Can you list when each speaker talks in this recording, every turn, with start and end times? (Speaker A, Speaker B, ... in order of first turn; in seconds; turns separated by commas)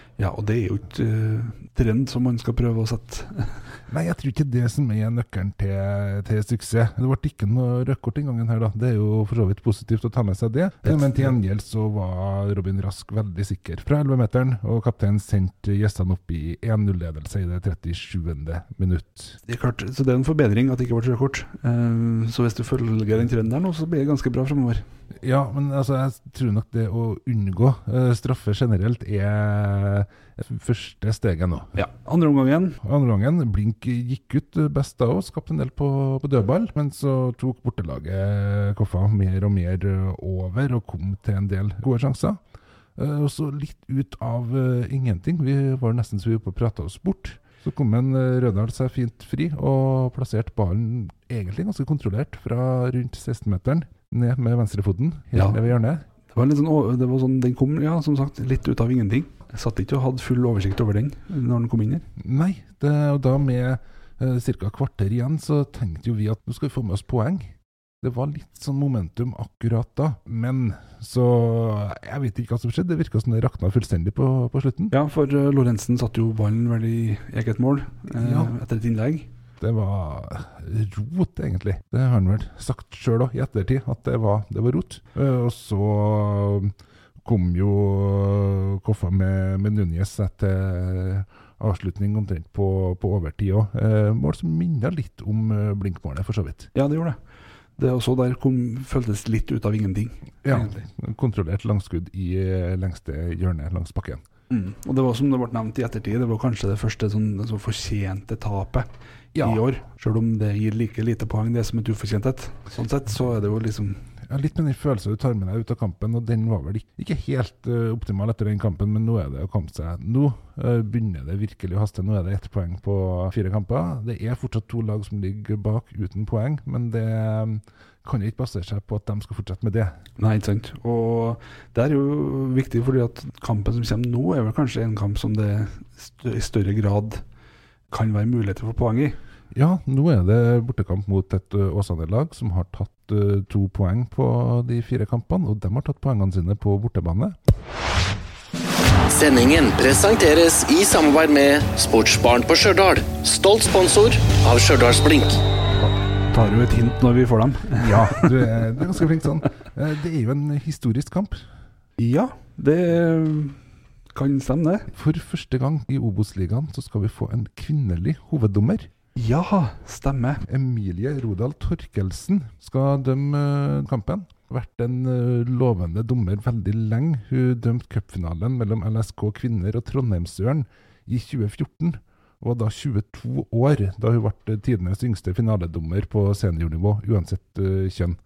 Speaker A: 0.2-3.6, Speaker B: 3.9-19.4, Speaker A: 10.9-11.3, Speaker A: 19.4-24.8, Speaker B: 25.2-31.8, Speaker A: 31.8-32.8, Speaker B: 32.8-42.4, Speaker B: 43.0-56.0, Speaker A: 55.3-55.6, Speaker A: 56.3-62.0, Speaker B: 62.2-74.9, Speaker A: 74.9-79.3, Speaker B: 78.2-78.5, Speaker B: 79.6-96.7, Speaker A: 96.7-97.2, Speaker A: 97.8-100.7, Speaker B: 100.4-104.2, Speaker A: 104.5-108.9, Speaker B: 109.3-109.6, Speaker A: 109.4-114.0, Speaker B: 114.3-129.9, Speaker A: 130.2-137.2, Speaker A: 137.9-139.2, Speaker B: 139.5-147.3, Speaker C: 149.1-155.4, Speaker A: 156.3-158.6, Speaker B: 157.8-161.4, Speaker A: 162.0-163.6, Speaker A: 164.1-164.9, Speaker B: 164.9-168.9, Speaker A: 169.1-170.4, Speaker B: 170.4-188.2